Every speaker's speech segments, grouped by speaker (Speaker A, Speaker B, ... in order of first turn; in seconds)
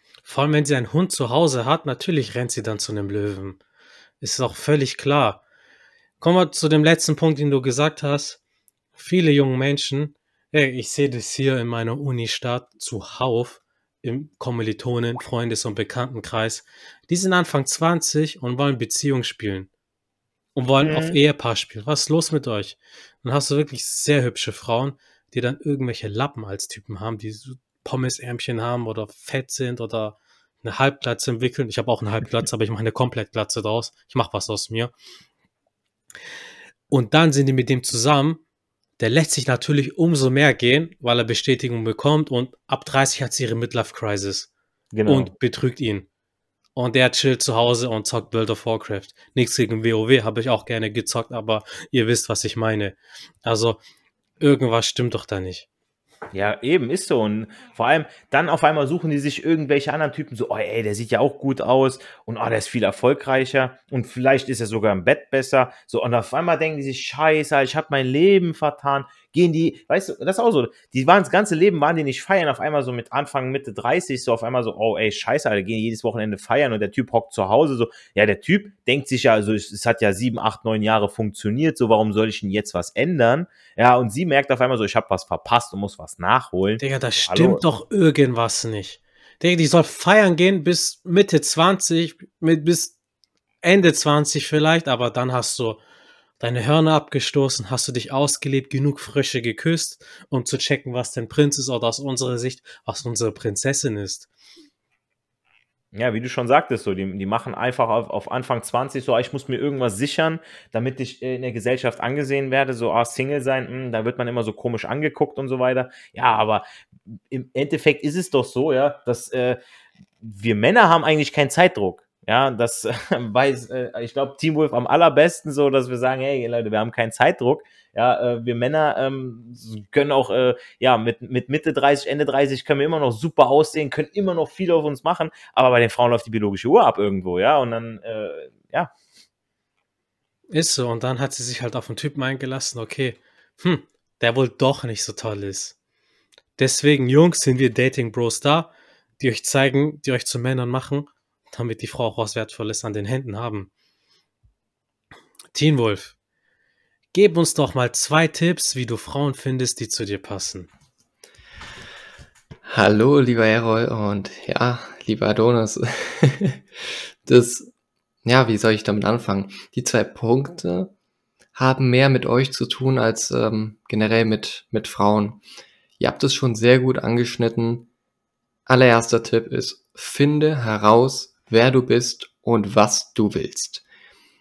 Speaker A: 0.2-3.6, 4.2-5.4, 6.2-8.4, 8.9-19.7, 20.5-34.9, 36.9-38.4, 39.0-44.5, 45.0-46.1, 46.8-53.8, 54.4-55.7, 86.8-93.0, 93.6-95.8, 96.4-104.3, 140.5-145.8, 146.6-153.7, 155.5-156.1, 157.1-160.7
Speaker B: 20.8-21.2, 44.9-45.3, 56.3-87.6, 105.9-116.6, 117.3-119.6, 120.2-138.9
Speaker C: 162.7-166.6, 167.2-167.7, 168.2-170.9, 171.6-175.4, 176.0-177.9, 178.7-183.8